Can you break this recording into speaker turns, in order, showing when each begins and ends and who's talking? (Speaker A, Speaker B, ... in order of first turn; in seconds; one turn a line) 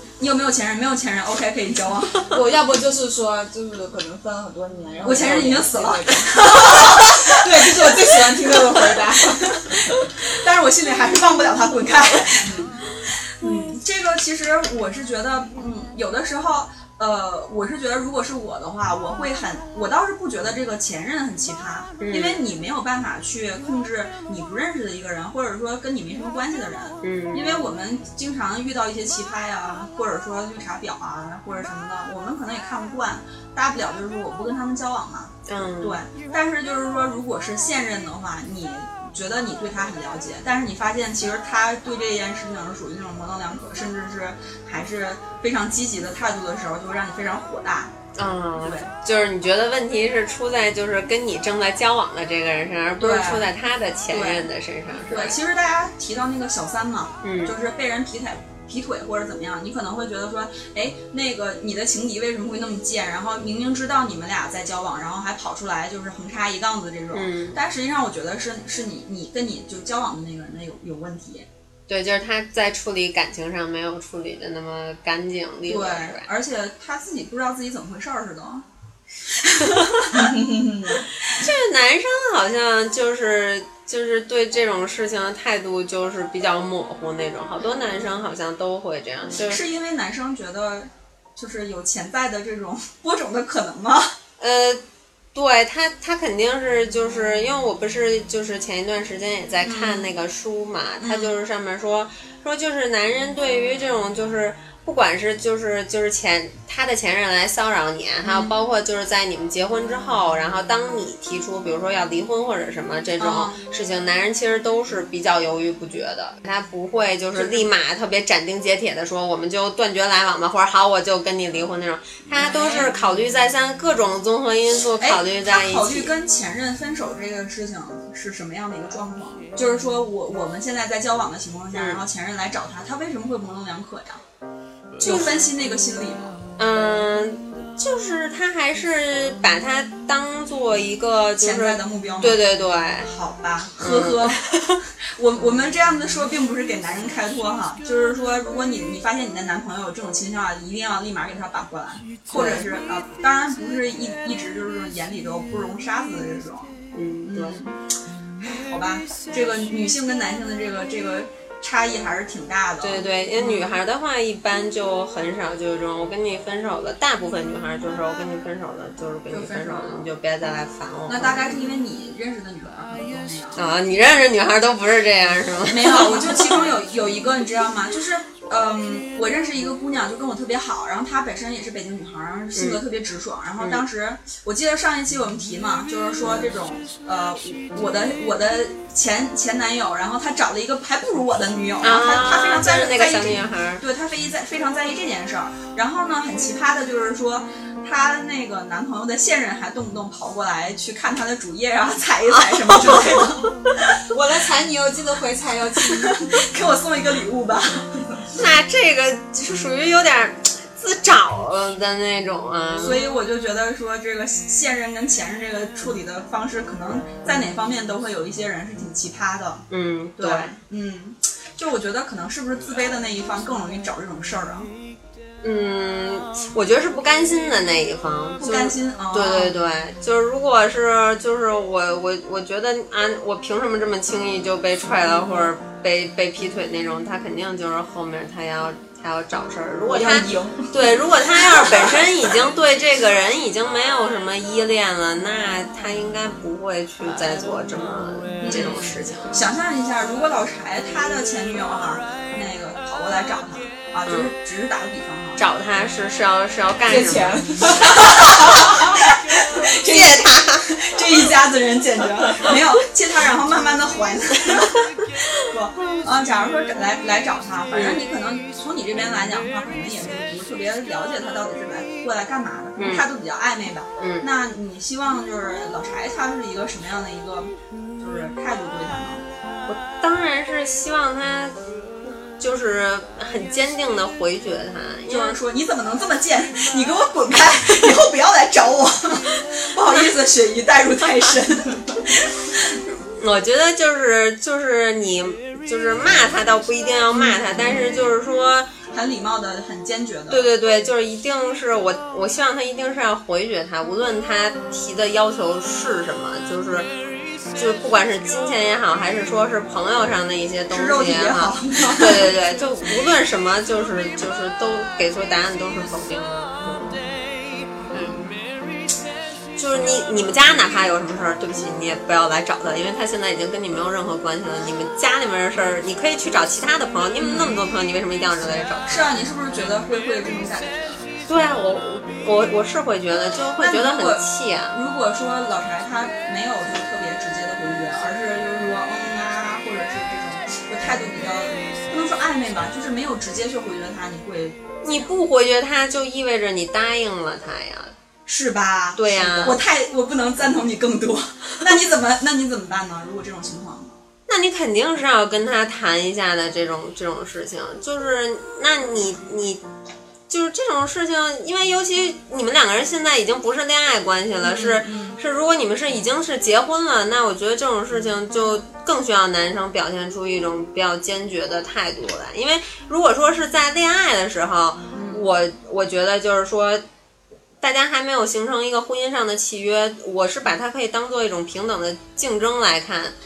Speaker A: 0.2-2.3
Speaker B: 2.3-10.0
Speaker A: 5.0-8.4
Speaker A: 9.3-47.9
Speaker B: 12.4-12.7
Speaker C: 22.0-22.4
Speaker C: 27.0-27.7
Speaker C: 35.5-36.0
Speaker C: 48.1-55.4
Speaker A: 48.6-48.9
Speaker A: 53.0-53.5
Speaker A: 54.1-71.5
Speaker C: 57.2-57.5
Speaker C: 67.1-67.6
Speaker C: 71.9-76.3
Speaker A: 75.7-78.6
Speaker A: 79.4-80.3
Speaker C: 79.6-80.1
Speaker B: 80.1-81.0
Speaker A: 80.9-81.4
Speaker C: 81.2-89.6
Speaker A: 89.4-94.1
Speaker C: 94.4-94.8
Speaker C: 95.3-126.1
Speaker A: 99.6-100.1
Speaker A: 101.0-101.3
Speaker A: 108.2-108.5
Speaker A: 113.2-113.6
Speaker A: 117.3-117.7
Speaker A: 122.3-122.9
Speaker A: 125.0-134.2
Speaker C: 131.7-132.0
Speaker A: 135.0-136.4
Speaker C: 135.0-135.5
Speaker C: 136.6-143.1
Speaker A: 141.4-142.4
Speaker A: 143.0-144.4
Speaker C: 143.8-144.8
Speaker A: 145.2-163.7
Speaker C: 152.3-152.7
Speaker C: 156.9-157.6
Speaker C: 162.8-171.4
Speaker A: 169.3-170.1
Speaker A: 171.1-173.7
Speaker C: 173.6-176.7
Speaker A: 175.7-203.6
Speaker C: 182.5-182.8
Speaker C: 191.8-193.8
Speaker C: 202.3-203.2
Speaker B: 204.1-206.3
Speaker A: 206.0-208.0
Speaker C: 208.3-213.0
Speaker A: 212.8-219.6
Speaker C: 219.7-220.6
Speaker A: 220.2-224.7
Speaker C: 225.4-249.4
Speaker A: 228.4-229.5
Speaker A: 239.9-240.6
Speaker B: 240.1-240.4
Speaker A: 241.5-242.1
Speaker A: 248.4-255.4
Speaker C: 254.1-254.3
Speaker C: 255.4-258.8
Speaker B: 256.8-259.1
Speaker A: 257.9-264.8
Speaker C: 259.6-260.7
Speaker A: 265.4-279.2
Speaker C: 267.7-268.0
Speaker C: 272.8-273.0
Speaker C: 274.0-274.3
Speaker C: 279.7-285.4
Speaker A: 285.1-292.8
Speaker C: 293.1-298.7
Speaker A: 298.9-300.4
Speaker C: 300.3-306.9
Speaker C: 307.5-317.0
Speaker A: 310.7-312.3
Speaker A: 317.9-318.3
Speaker C: 317.9-318.3
Speaker C: 319.6-329.1
Speaker A: 327.2-327.6
Speaker A: 328.9-331.1
Speaker C: 331.3-334.8
Speaker A: 333.6-344.8
Speaker C: 344.8-347.9
Speaker A: 348.3-353.9
Speaker C: 349.0-349.6
Speaker C: 354.3-359.6
Speaker C: 360.3-376.8
Speaker A: 364.4-365.2
Speaker A: 374.9-375.2
Speaker C: 377.6-383.1